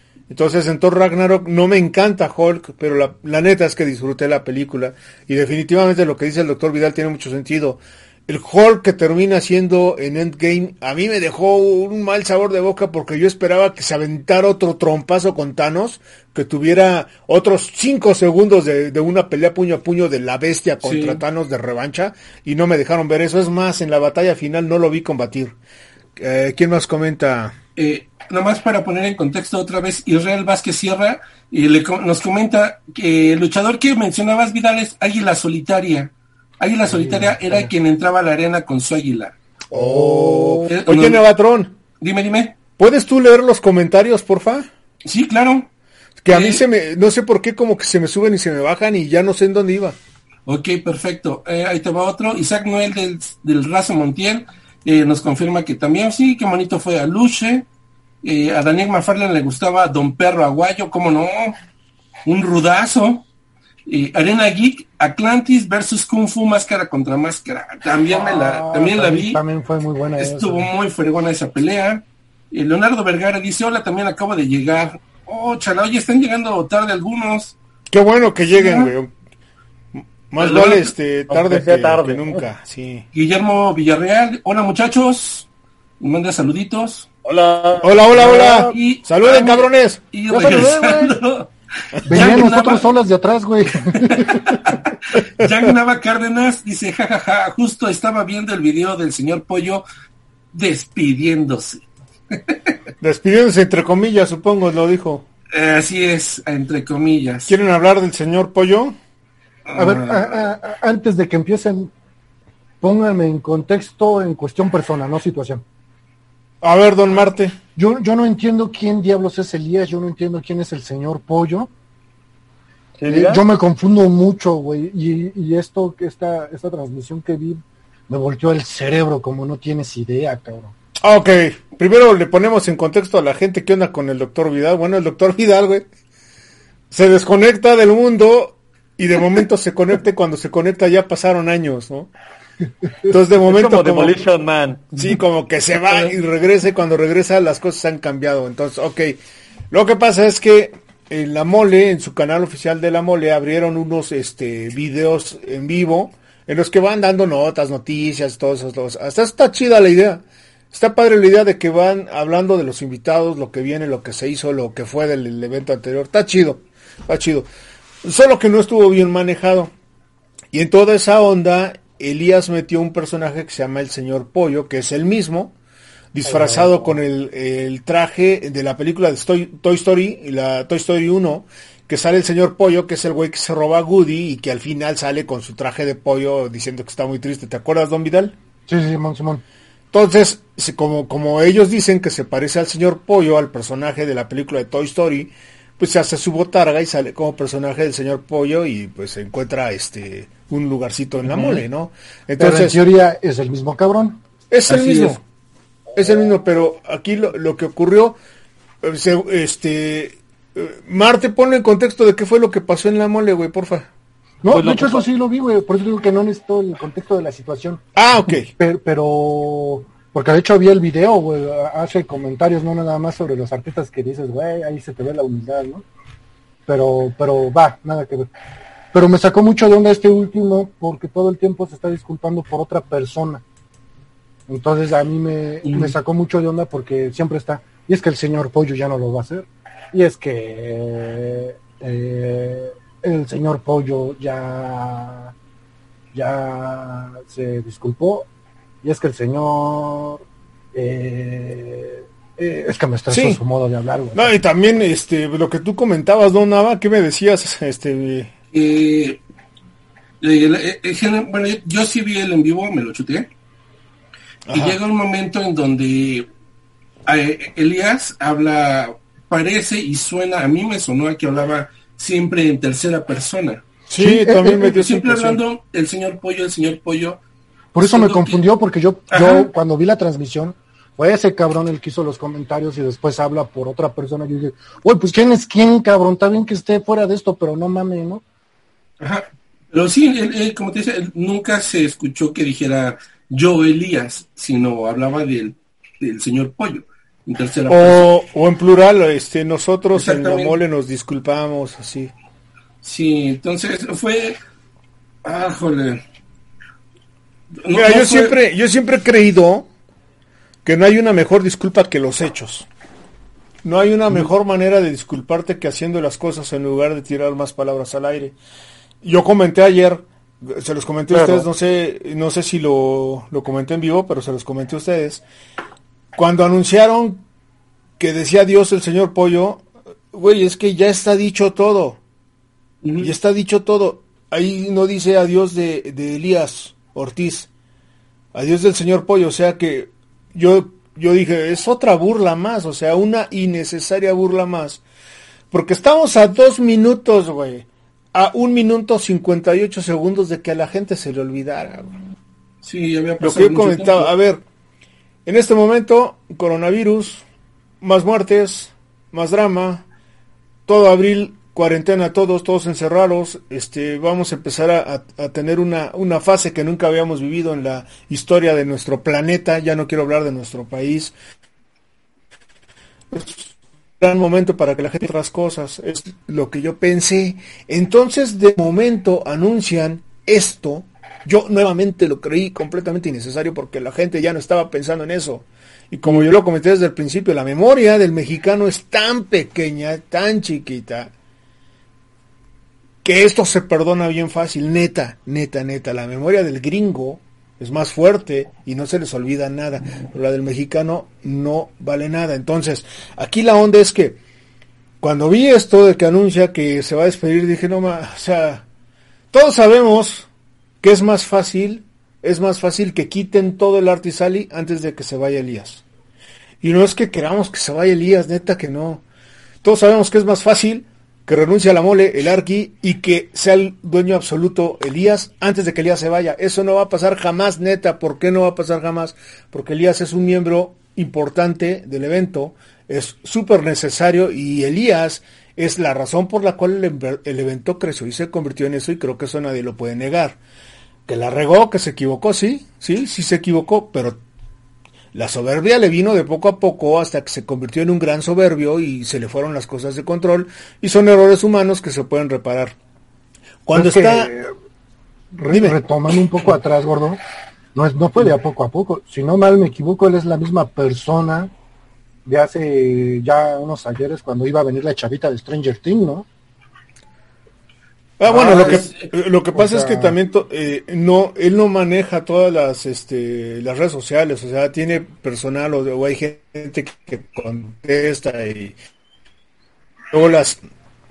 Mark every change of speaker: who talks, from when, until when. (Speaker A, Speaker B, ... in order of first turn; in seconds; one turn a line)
Speaker A: 0.3-25.6
Speaker B: 20.8-21.2
Speaker A: 26.2-27.6
Speaker B: 27.8-39.3
Speaker C: 36.9-37.7
Speaker C: 39.7-40.8
Speaker A: 39.7-41.7
Speaker B: 40.7-41.2
Speaker B: 42.0-42.6
Speaker A: 42.8-44.7
Speaker B: 45.0-45.7
Speaker A: 46.2-50.0
Speaker B: 46.3-46.6
Speaker B: 50.5-57.6
Speaker B: 58.2-61.6
Speaker B: 62.2-63.2
Speaker B: 63.9-69.4
Speaker C: 68.1-70.7
Speaker B: 70.2-77.5
Speaker A: 77.9-79.1
Speaker B: 78.5-78.9
Speaker A: 79.9-83.0
Speaker B: 80.4-80.9
Speaker D: 81.3-82.4
Speaker B: 83.1-85.5
Speaker B: 86.0-87.1
Speaker D: 87.2-88.8
Speaker A: 87.8-90.0
Speaker B: 88.3-91.5
Speaker D: 90.3-91.1
Speaker C: 90.3-91.1
Speaker B: 92.1-92.9
Speaker A: 92.1-92.6
Speaker C: 92.1-94.6
Speaker B: 93.9-99.8
Speaker B: 100.5-102.7
Speaker A: 103.0-105.2
Speaker B: 105.5-107.5
Speaker A: 107.5-109.0
Speaker B: 109.7-110.4
Speaker C: 109.8-111.9
Speaker C: 112.8-115.6
Speaker A: 116.6-117.5
Speaker C: 117.8-121.7
Speaker D: 123.0-123.4
Speaker C: 123.1-130.7
Speaker A: 131.0-135.8
Speaker A: 136.9-142.1
Speaker A: 143.1-144.2
Speaker D: 143.4-145.0
Speaker A: 144.9-149.2
Speaker A: 149.7-167.5
Speaker A: 168.0-169.7
Speaker A: 170.5-175.5
Speaker A: 176.1-188.3
Speaker C: 176.3-176.9
Speaker C: 188.7-189.4
Speaker A: 189.9-202.8
Speaker B: 201.3-201.6
Speaker C: 202.4-204.2
Speaker A: 204.5-205.2
Speaker B: 204.7-205.2
Speaker A: 205.9-208.2
Speaker A: 208.8-213.9
Speaker C: 214.4-217.8
Speaker D: 214.5-215.0
Speaker A: 217.9-218.5
Speaker C: 218.6-225.8
Speaker C: 226.7-228.3
Speaker C: 228.9-233.4
Speaker C: 234.5-245.3
Speaker B: 235.6-235.9
Speaker C: 246.1-248.3
Speaker C: 248.8-250.2
Speaker C: 250.7-254.3
Speaker A: 253.1-253.4
Speaker A: 254.1-258.3
Speaker B: 258.5-259.2
Speaker B: 260.2-263.3
Speaker A: 264.5-264.8
Speaker B: 264.5-266.2
Speaker B: 267.1-273.6
Speaker A: 273.9-275.4
Speaker C: 274.0-274.7
Speaker B: 274.6-277.2
Speaker C: 277.7-288.2
Speaker B: 277.8-278.4
Speaker B: 279.1-279.5
Speaker B: 289.0-298.1
Speaker A: 297.7-302.1
Speaker B: 299.9-300.6
Speaker B: 302.8-304.4
Speaker B: 305.2-306.0
Speaker B: 307.6-308.3
Speaker A: 307.7-309.7
Speaker A: 310.6-312.7
Speaker A: 313.6-318.3
Speaker A: 319.0-325.2
Speaker D: 321.1-321.4
Speaker A: 326.1-327.2
Speaker A: 328.0-332.0
Speaker B: 332.8-333.1
Speaker A: 333.0-337.5
Speaker A: 338.3-344.8
Speaker A: 345.5-351.9
Speaker B: 352.6-354.1
Speaker A: 353.2-354.4
Speaker A: 355.2-357.2
Speaker A: 357.8-359.8
Speaker A: 360.7-371.1
Speaker A: 373.1-391.1
Speaker A: 393.0-404.2
Speaker A: 405.0-408.6
Speaker A: 409.3-410.3
Speaker A: 410.8-415.8
Speaker A: 416.6-419.0
Speaker A: 419.6-440.4
Speaker A: 441.1-444.2
Speaker A: 445.1-452.7
Speaker A: 453.6-454.3
Speaker C: 453.7-454.5
Speaker C: 455.3-457.2
Speaker A: 455.5-455.8
Speaker C: 457.7-461.5
Speaker C: 462.2-466.3
Speaker A: 468.2-478.7
Speaker B: 468.3-469.1
Speaker C: 468.5-468.8
Speaker C: 469.5-470.1
Speaker A: 480.1-480.6